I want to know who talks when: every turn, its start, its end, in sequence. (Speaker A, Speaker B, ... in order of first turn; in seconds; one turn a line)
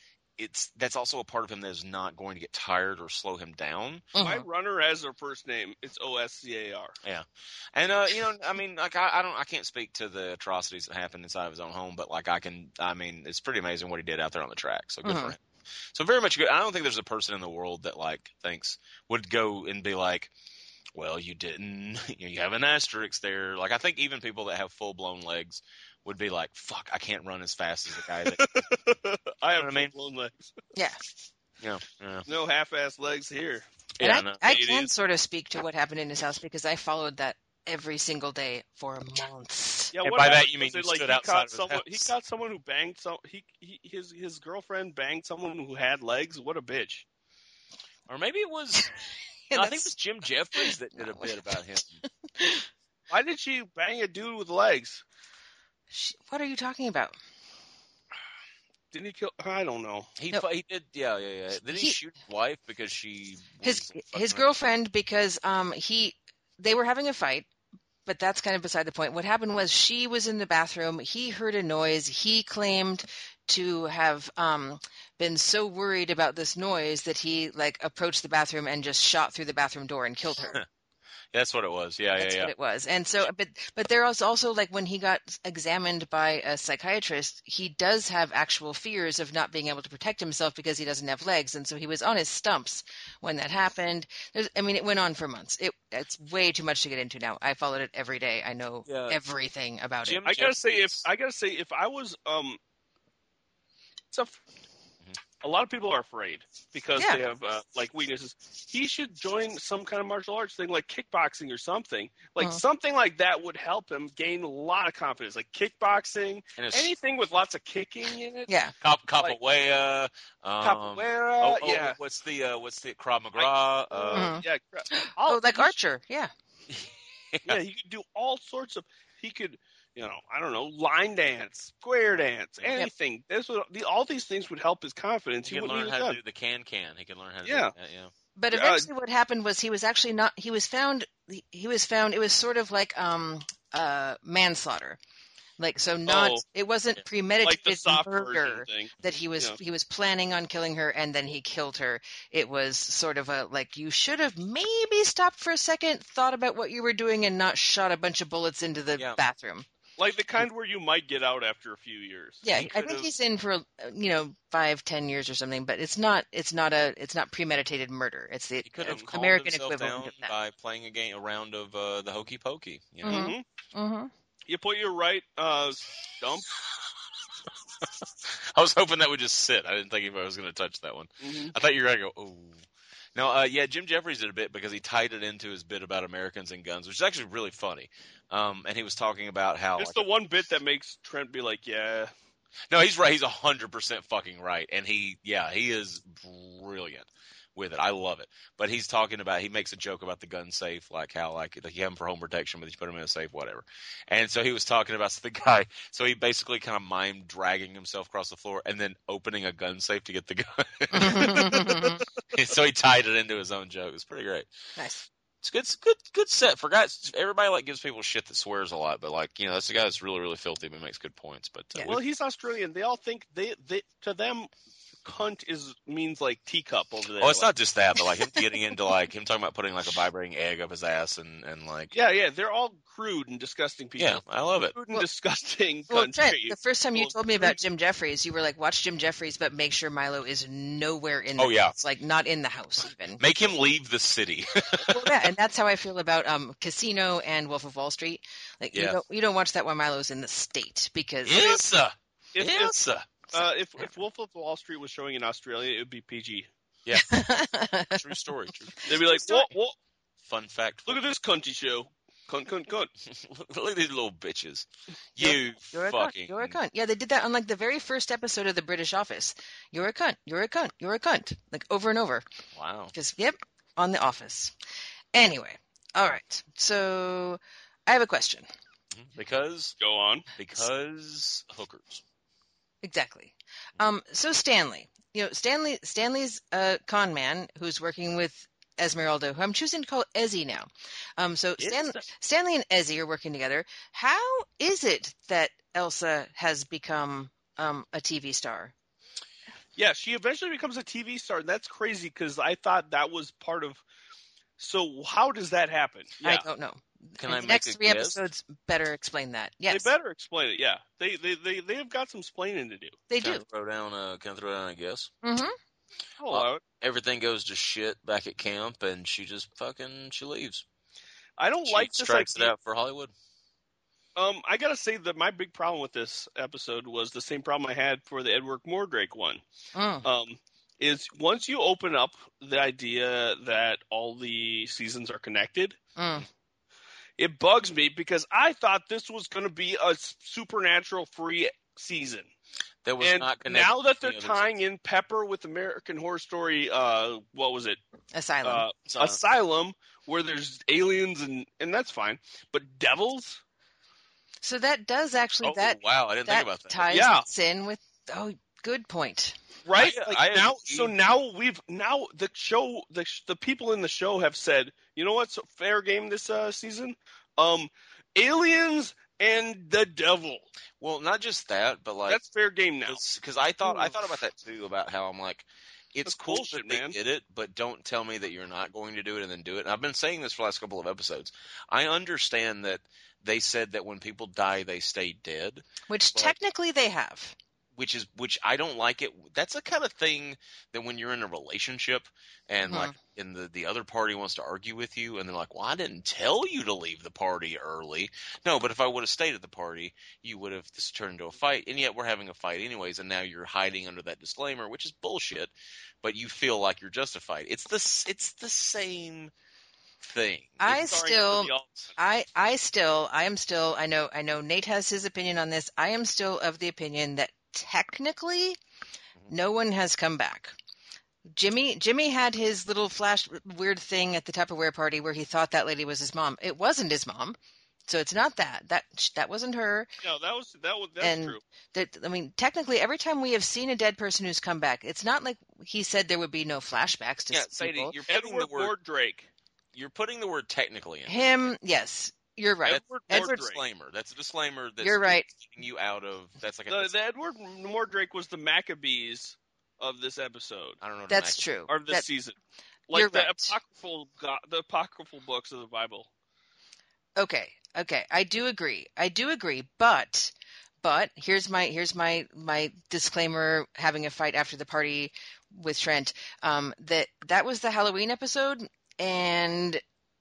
Speaker A: 0.4-4.1
Speaker B: 4.2-4.5
Speaker C: 4.2-7.0
Speaker A: 7.0-15.4
Speaker B: 15.0-15.4
Speaker A: 15.9-20.3
Speaker A: 20.9-28.5
Speaker C: 28.2-30.5
Speaker A: 29.6-29.9
Speaker A: 31.6-32.3
Speaker C: 32.3-33.7
Speaker A: 34.0-34.6
Speaker B: 34.0-39.9
Speaker C: 34.4-34.9
Speaker C: 39.9-47.1
Speaker A: 40.0-42.1
Speaker A: 48.1-48.9
Speaker B: 49.5-49.9
Speaker A: 49.5-52.0
Speaker B: 50.6-51.3
Speaker B: 52.4-52.7
Speaker C: 53.1-55.0
Speaker B: 55.9-57.2
Speaker C: 58.9-60.1
Speaker A: 60.2-64.4
Speaker B: 61.7-62.0
Speaker B: 63.6-67.5
Speaker B: 68.1-80.6
Speaker A: 81.3-82.5
Speaker B: 82.2-100.2
Speaker A: 98.9-99.2
Speaker A: 100.0-101.0
Speaker C: 100.2-102.6
Speaker C: 104.1-104.4
Speaker C: 105.4-118.5
Speaker A: 116.6-116.9
Speaker B: 118.5-118.7
Speaker A: 118.8-124.3
Speaker C: 120.6-122.0
Speaker C: 123.4-125.8
Speaker B: 124.1-126.3
Speaker A: 126.7-127.6
Speaker C: 127.5-136.2
Speaker A: 135.4-138.1
Speaker C: 137.4-137.7
Speaker B: 138.4-145.0
Speaker C: 138.5-138.9
Speaker B: 145.6-159.7
Speaker C: 146.1-146.4
Speaker C: 147.4-149.6
Speaker C: 160.0-162.4
Speaker B: 162.4-170.3
Speaker A: 162.5-163.1
Speaker A: 168.7-173.3
Speaker C: 173.0-173.4
Speaker B: 173.1-174.1
Speaker C: 174.5-176.5
Speaker A: 177.8-190.0
Speaker C: 181.2-181.5
Speaker C: 189.8-192.1
Speaker A: 192.7-214.5
Speaker B: 210.9-212.0
Speaker B: 214.8-215.1
Speaker A: 215.4-222.0
Speaker C: 221.9-224.5
Speaker C: 225.0-227.5
Speaker A: 227.2-231.9
Speaker C: 231.9-234.2
Speaker A: 234.0-234.8
Speaker C: 234.7-237.6
Speaker B: 235.9-243.2
Speaker A: 241.4-241.8
Speaker A: 243.2-245.2
Speaker B: 244.9-251.6
Speaker A: 248.7-249.0
Speaker A: 251.2-253.3
Speaker C: 252.3-252.8
Speaker C: 253.3-256.5
Speaker A: 256.9-258.8
Speaker B: 256.9-258.0
Speaker C: 258.9-259.8
Speaker B: 258.9-259.5
Speaker A: 260.2-261.0
Speaker C: 260.9-262.9
Speaker A: 263.1-266.6
Speaker B: 265.2-272.2
Speaker A: 272.6-272.9
Speaker B: 272.9-274.5
Speaker B: 275.1-278.5
Speaker A: 278.9-279.8
Speaker C: 279.8-280.3
Speaker A: 280.4-282.0
Speaker B: 282.8-298.7
Speaker A: 291.6-291.9
Speaker C: 299.8-303.8
Speaker C: 304.6-306.4
Speaker B: 306.2-309.9
Speaker A: 307.2-308.3
Speaker C: 309.7-313.0
Speaker B: 313.1-313.4
Speaker A: 313.2-315.1
Speaker B: 315.2-315.6
Speaker C: 316.2-316.6
Speaker A: 316.3-320.6
Speaker C: 321.4-322.5
Speaker A: 321.6-323.1
Speaker C: 324.2-329.4
Speaker B: 329.8-330.1
Speaker C: 330.0-335.8
Speaker B: 336.0-336.3
Speaker C: 337.2-342.3
Speaker A: 342.8-344.6
Speaker C: 343.0-347.8
Speaker B: 348.1-348.7
Speaker C: 348.4-353.4
Speaker A: 348.9-349.2
Speaker B: 354.4-359.4
Speaker A: 355.4-357.0
Speaker C: 356.9-357.3
Speaker C: 359.7-370.4
Speaker A: 359.8-360.9
Speaker A: 370.8-372.2
Speaker C: 372.1-373.0
Speaker A: 372.9-386.4
Speaker C: 373.6-374.0
Speaker C: 376.1-377.0
Speaker B: 385.9-387.4
Speaker A: 387.8-409.3
Speaker B: 392.7-393.0
Speaker A: 410.0-410.9
Speaker B: 410.6-418.6
Speaker C: 410.7-411.9
Speaker B: 419.3-420.5
Speaker B: 421.3-429.9
Speaker C: 430.0-431.4
Speaker B: 431.0-437.9
Speaker A: 437.3-438.7
Speaker C: 438.1-439.3
Speaker A: 439.7-441.5
Speaker B: 441.1-443.4
Speaker A: 442.7-446.9
Speaker C: 442.7-443.6
Speaker B: 444.8-445.3
Speaker C: 446.7-450.8
Speaker A: 450.8-451.5
Speaker B: 451.1-452.1
Speaker C: 451.7-452.4
Speaker C: 452.9-456.1
Speaker B: 452.9-453.5
Speaker B: 457.2-469.8